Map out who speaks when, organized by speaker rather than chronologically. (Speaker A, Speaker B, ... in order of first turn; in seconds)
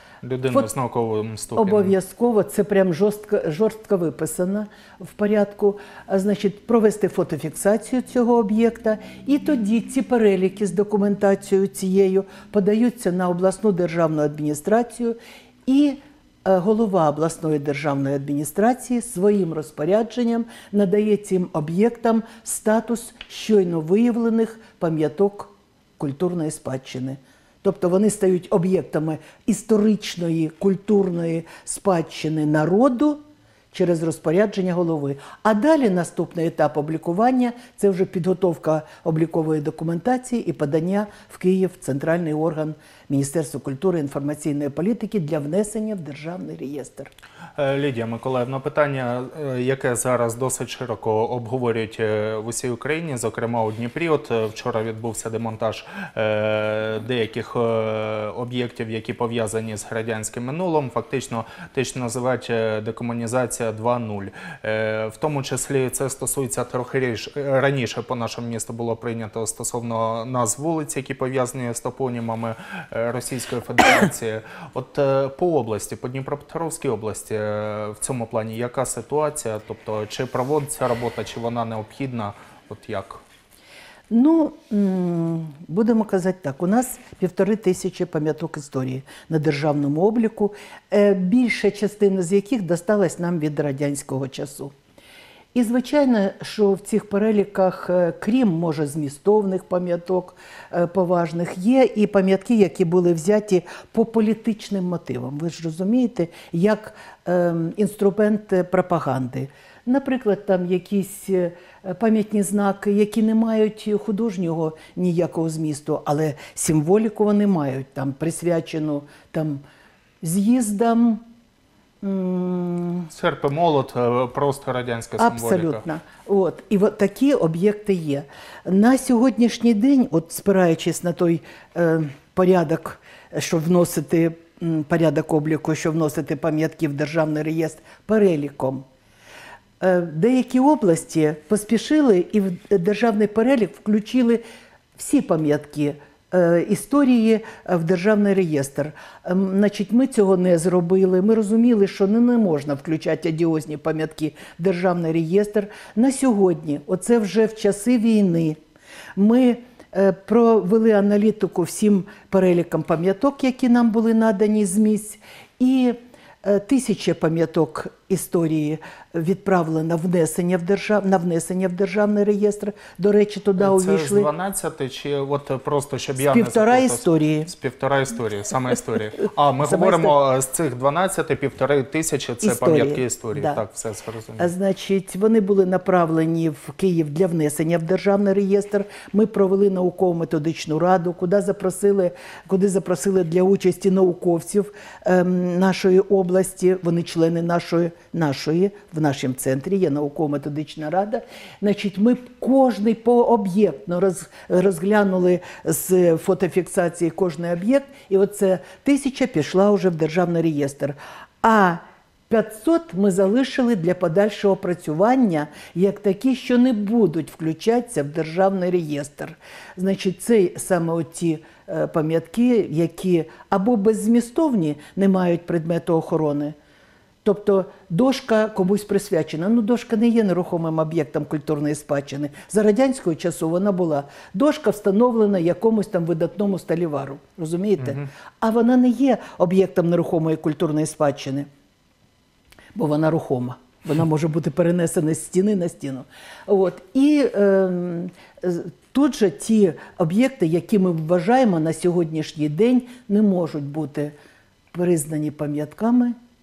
Speaker A: 0.2-1.9, 47.6-83.2, 123.1-125.8, 173.6-184.5, 237.8-238.1
Speaker B: 1.6-15.2, 15.7-33.2, 33.7-47.1, 84.1-94.7, 95.5-119.6, 120.2-121.2, 122.0-123.1, 125.2-138.8, 139.8-144.4, 145.0-158.6, 159.2-174.3, 176.2-177.5, 179.6-180.1, 182.4-183.6, 184.4-226.6, 227.2-241.5, 242.8-254.1, 254.7-256.2